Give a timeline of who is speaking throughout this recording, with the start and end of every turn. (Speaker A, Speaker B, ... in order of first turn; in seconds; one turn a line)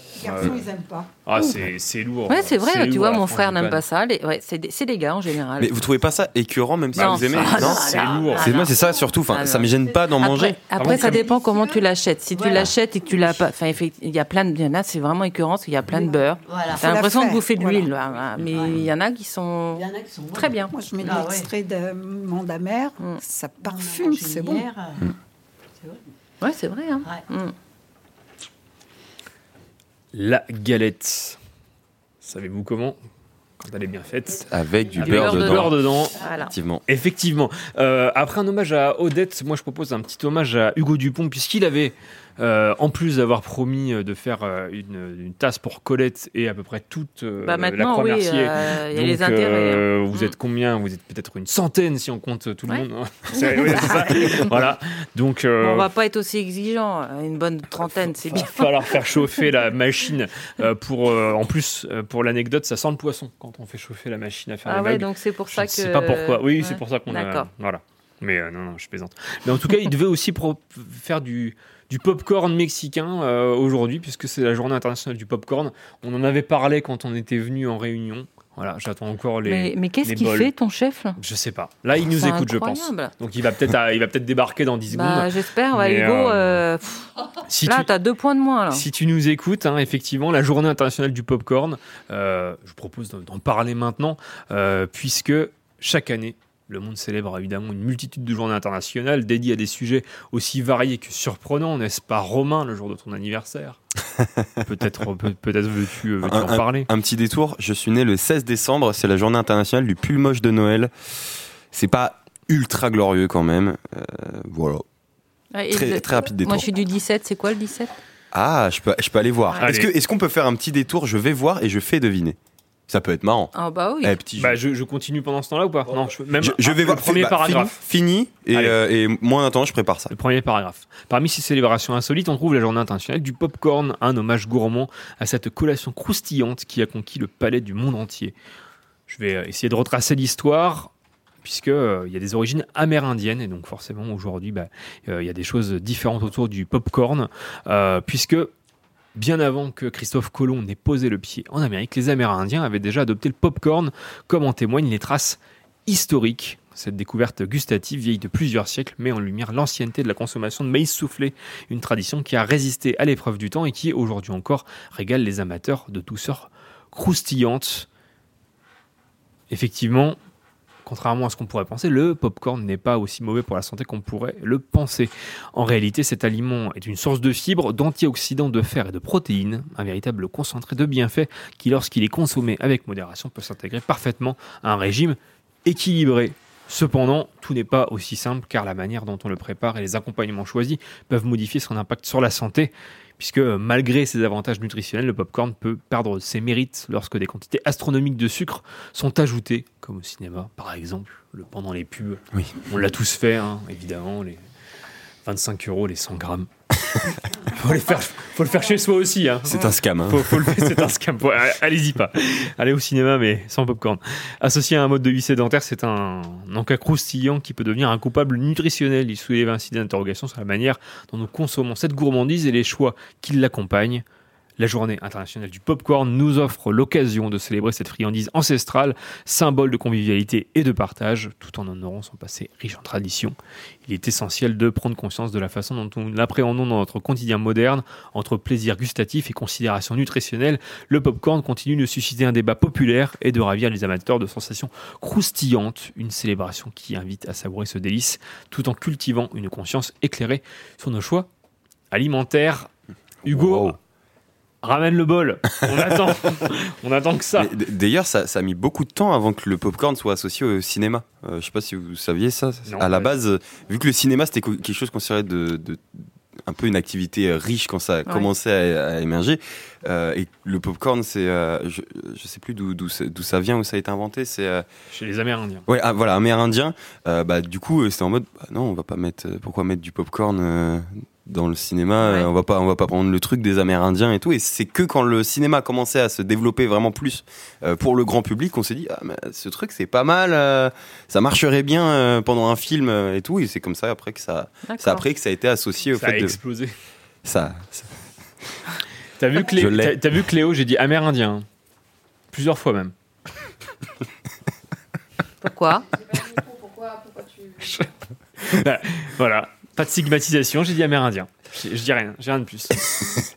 Speaker A: 0.1-1.1
Speaker B: 0.3-0.6
Speaker B: 1.2-3.8
Speaker C: 2.3-5.8
Speaker D: 5.6-10.7
Speaker B: 6.9-8.5
Speaker C: 7.0-20.7
Speaker E: 7.4-8.9
Speaker B: 10.7-11.2
Speaker E: 10.9-11.8
Speaker E: 12.3-12.7
Speaker A: 15.9-16.2
Speaker E: 16.4-16.9
Speaker A: 16.8-17.9
Speaker E: 18.4-18.8
Speaker E: 19.7-21.5
Speaker A: 20.7-24.7
Speaker E: 23.6-25.0
Speaker C: 26.4-27.5
Speaker B: 30.1-31.4
Speaker B: 32.2-33.0
Speaker B: 33.6-36.2
Speaker D: 34.5-35.8
Speaker C: 35.0-36.5
Speaker D: 36.5-36.8
Speaker B: 36.9-55.9
Speaker C: 47.4-50.3
Speaker C: 52.7-54.5
Speaker C: 55.6-58.9
Speaker B: 58.3-80.5
Speaker C: 64.6-67.5
Speaker C: 79.4-81.2
Speaker B: 81.2-86.6
Speaker C: 82.1-83.1
Speaker C: 84.9-87.1
Speaker B: 87.5-87.9
Speaker C: 87.6-88.8
Speaker B: 88.7-103.8
Speaker B: 104.7-106.9
Speaker D: 106.2-110.9
Speaker D: 111.7-114.8
Speaker C: 115.5-117.9
Speaker D: 115.7-116.7
Speaker D: 118.3-122.4
Speaker B: 119.6-119.9
Speaker D: 122.9-124.6
Speaker C: 123.5-124.2
Speaker B: 124.4-127.8
Speaker D: 126.3-130.1
Speaker B: 128.5-128.8
Speaker B: 130.1-138.3
Speaker B: 139.1-140.9
Speaker B: 141.4-148.5
Speaker B: 149.1-167.9
Speaker B: 169.5-170.2
Speaker B: 170.8-204.4
Speaker D: 202.3-202.7
Speaker B: 205.2-206.5
Speaker B: 207.5-224.0
Speaker D: 209.4-210.9
Speaker B: 224.6-251.3
Speaker B: 251.9-252.7
Speaker B: 253.2-253.8
Speaker D: 253.2-253.8
Speaker B: 254.6-257.5
Speaker D: 257.4-265.9
Speaker B: 262.6-263.1
Speaker D: 266.5-274.6
Speaker B: 274.9-275.6
Speaker D: 275.7-296.4
Speaker C: 282.0-282.3
Speaker C: 294.6-295.0
Speaker B: 295.9-296.7
Speaker D: 297.2-297.8
Speaker B: 299.2-301.4
Speaker D: 299.4-300.1
Speaker B: 302.3-302.9
Speaker C: 305.4-305.9
Speaker B: 307.6-307.9
Speaker B: 308.4-313.0